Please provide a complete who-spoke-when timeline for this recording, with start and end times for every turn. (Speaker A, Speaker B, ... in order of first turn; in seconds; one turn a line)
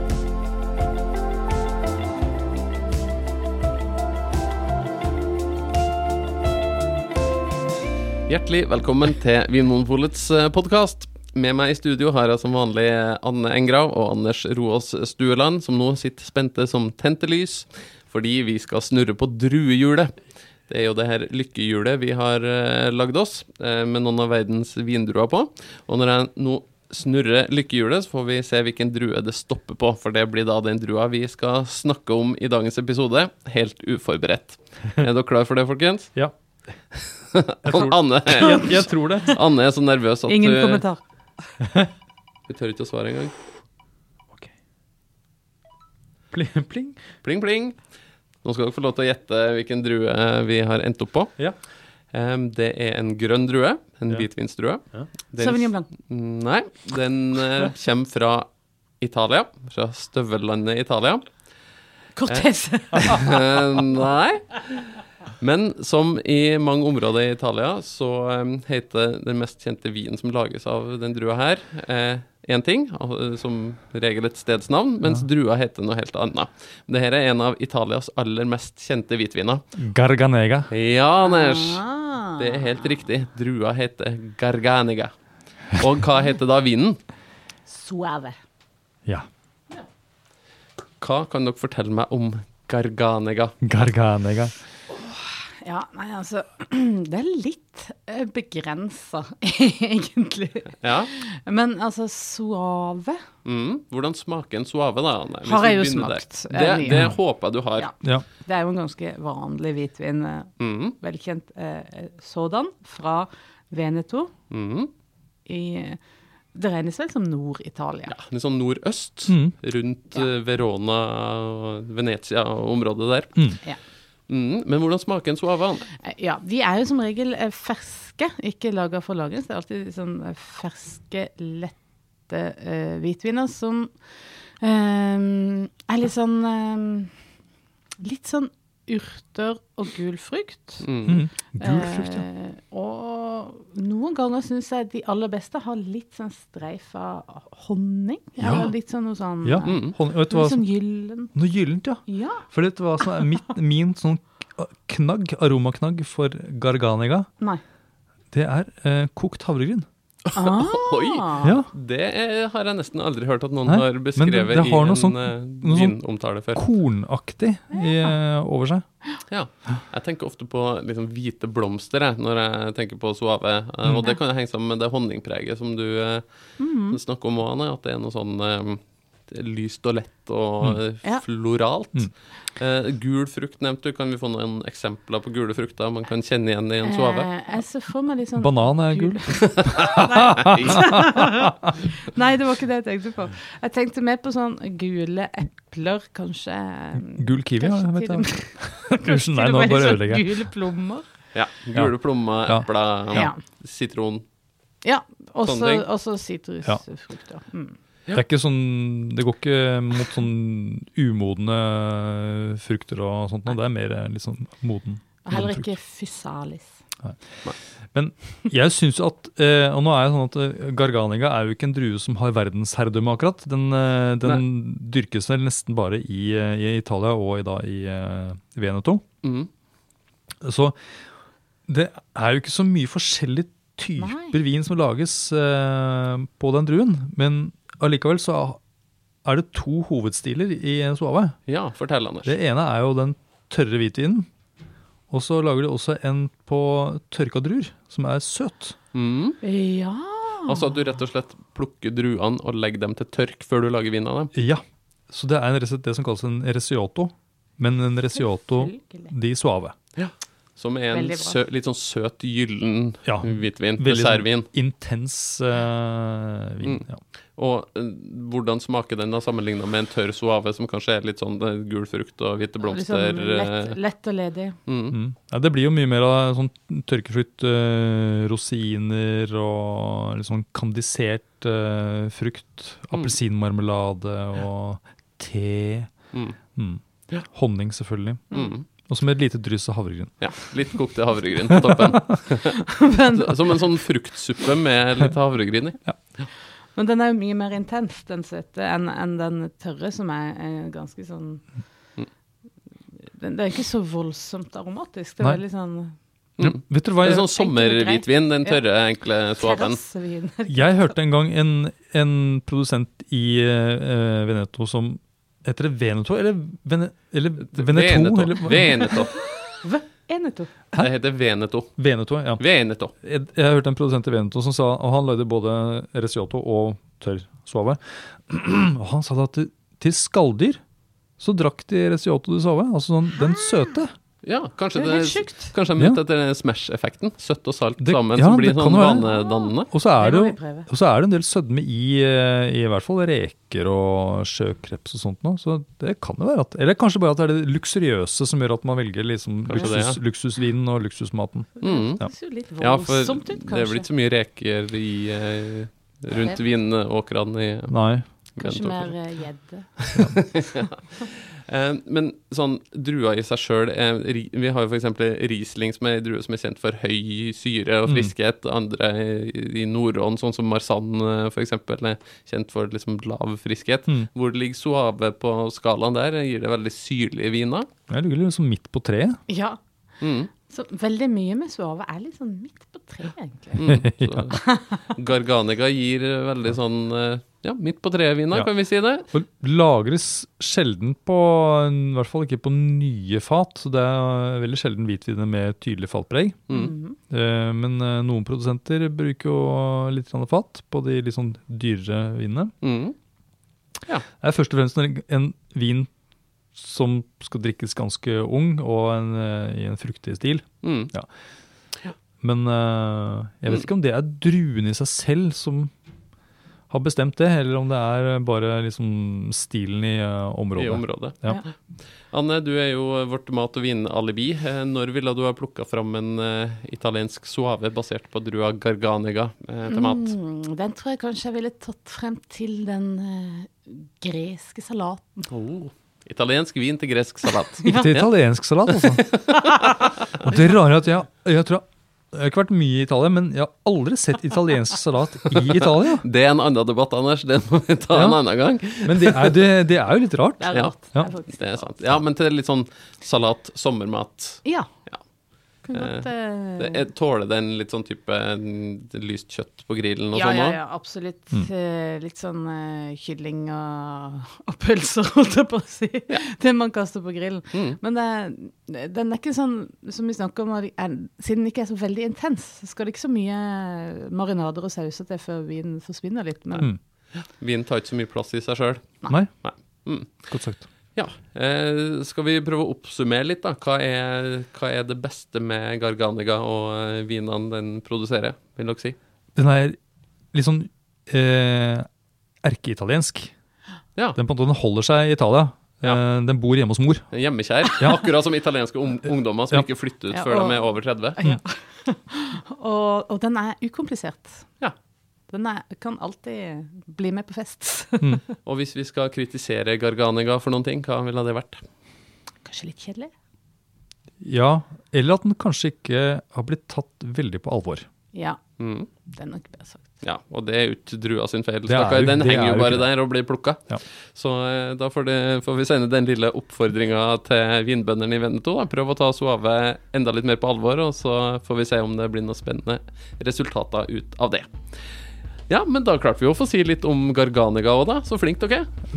Speaker A: 8.3-20.1
Speaker A: 20.7-36.1
Speaker A: 37.3-40.8
Speaker B: 37.6-39.4
Speaker C: 38.4-38.8
Speaker C: 40.3-41.0
Speaker A: 42.5-43.3
Speaker B: 46.3-47.0
Speaker A: 47.2-47.8
Speaker A: 48.4-51.4
Speaker A: 52.1-58.5
Speaker C: 55.4-55.9
Speaker A: 59.0-61.2
Speaker C: 62.1-63.3
Speaker A: 63.0-79.6
Speaker B: 79.8-80.7
Speaker A: 80.7-85.1
Speaker C: 81.2-82.8
Speaker A: 85.7-87.0
Speaker C: 87.7-88.4
Speaker A: 91.0-93.6
Speaker B: 93.6-94.5
Speaker C: 94.9-103.2
Speaker A: 100.8-101.1
Speaker A: 103.4-107.9
Speaker C: 105.4-107.1
Speaker B: 106.9-107.1
Speaker C: 107.8-114.3
Speaker A: 110.6-111.0
Speaker A: 114.5-114.9
Speaker C: 115.5-116.0
Speaker C: 116.5-118.1
Speaker A: 118.1-123.6
Speaker B: 119.3-119.5
Speaker A: 124.3-125.9
Speaker C: 126.0-133.9
Speaker C: 134.6-137.1
Speaker C: 138.0-140.9
Speaker A: 140.8-141.2
Speaker B: 141.1-142.2
Speaker C: 141.6-151.3
Speaker B: 148.4-148.7
Speaker B: 149.4-150.7
Speaker A: 149.7-149.9
Speaker B: 151.3-157.3
Speaker C: 152.1-152.4
Speaker B: 158.3-159.8
Speaker C: 160.3-161.5
Speaker A: 160.4-166.6
Speaker B: 161.4-161.7
Speaker B: 163.7-166.0
Speaker B: 166.5-168.8
Speaker C: 167.7-168.1
Speaker A: 169.3-187.3
Speaker C: 176.6-177.0
Speaker C: 186.8-201.1
Speaker B: 188.4-191.2
Speaker A: 189.9-190.7
Speaker B: 196.9-200.5
Speaker A: 201.3-204.2
Speaker B: 202.4-203.3
Speaker C: 203.1-203.4
Speaker C: 204.8-207.8
Speaker A: 205.4-205.8
Speaker B: 208.1-215.7
Speaker C: 215.2-216.8
Speaker B: 217.0-229.0
Speaker A: 229.2-229.5
Speaker B: 230.4-230.8
Speaker B: 231.7-238.6
Speaker C: 234.0-234.3
Speaker B: 239.2-241.4
Speaker A: 241.5-242.3
Speaker B: 242.2-244.2
Speaker B: 245.1-248.8
Speaker A: 248.9-249.4
Speaker C: 249.4-250.7
Speaker A: 250.5-254.3
Speaker B: 254.3-259.7
Speaker C: 258.3-259.1
Speaker A: 259.9-264.5
Speaker C: 260.9-261.4
Speaker B: 263.0-267.0
Speaker A: 266.6-273.8
Speaker C: 272.6-274.6
Speaker A: 274.7-275.0
Speaker B: 274.9-285.9
Speaker A: 286.1-286.4
Speaker B: 286.6-288.2
Speaker A: 288.3-288.6
Speaker B: 288.9-290.1
Speaker A: 290.2-292.7
Speaker B: 291.6-291.9
Speaker C: 292.6-293.5
Speaker A: 293.2-296.3
Speaker C: 296.7-301.4
Speaker C: 303.0-305.9
Speaker A: 306.4-309.8
Speaker B: 306.4-307.3
Speaker C: 307.2-308.6
Speaker C: 309.3-310.8
Speaker B: 310.4-319.1
Speaker A: 317.5-319.1
Speaker C: 319.6-320.5
Speaker A: 320.8-321.7
Speaker B: 321.8-322.4
Speaker A: 322.4-322.9
Speaker B: 323.0-330.6
Speaker B: 331.2-333.9
Speaker A: 334.2-339.7
Speaker C: 334.7-335.5
Speaker B: 337.8-339.1
Speaker C: 339.0-340.7
Speaker B: 339.7-352.1
Speaker A: 349.5-350.0
Speaker C: 351.6-353.9
Speaker A: 351.6-352.0
Speaker A: 352.6-357.7
Speaker C: 356.1-356.4
Speaker B: 357.7-358.0
Speaker A: 358.4-358.9
Speaker C: 358.4-359.7
Speaker A: 359.8-377.7
Speaker B: 367.9-368.1
Speaker B: 377.9-379.2
Speaker C: 379.3-379.6
Speaker A: 380.0-380.3
Speaker C: 380.5-383.6
Speaker B: 383.6-384.2
Speaker A: 383.6-389.1
Speaker B: 389.1-396.4
Speaker A: 396.5-396.7
Speaker C: 396.5-397.0
Speaker B: 397.1-402.5
Speaker A: 402.6-402.9
Speaker B: 404.2-405.9
Speaker B: 406.6-411.1
Speaker A: 410.6-410.9
Speaker B: 412.2-415.7
Speaker B: 416.7-421.4
Speaker A: 420.6-421.5
Speaker A: 422.1-430.1
Speaker C: 429.7-435.3
Speaker A: 435.3-438.1
Speaker B: 437.6-439.2
Speaker A: 438.7-439.4
Speaker B: 440.2-446.0
Speaker A: 445.3-449.4
Speaker B: 447.9-448.2
Speaker B: 448.8-451.1
Speaker C: 450.4-451.7
Speaker A: 451.3-455.0
Speaker C: 454.4-454.7
Speaker C: 455.6-456.9
Speaker A: 455.7-456.1
Speaker A: 456.6-460.6
Speaker C: 460.1-476.7
Speaker A: 467.5-467.8
Speaker A: 477.3-480.2
Speaker B: 480.3-480.7
Speaker A: 480.9-489.0
Speaker B: 489.4-489.8
Speaker B: 490.3-491.9
Speaker B: 492.4-493.3
Speaker B: 494.1-497.1
Speaker A: 497.1-501.2
Speaker C: 500.1-504.5
Speaker C: 505.3-508.2
Speaker A: 508.4-511.6
Speaker C: 512.4-513.1
Speaker B: 514.2-517.9
Speaker C: 518.1-518.4
Speaker A: 518.6-518.9
Speaker C: 519.1-519.9
Speaker A: 520.0-523.6
Speaker B: 521.7-522.9
Speaker A: 524.1-534.5
Speaker A: 535.5-538.7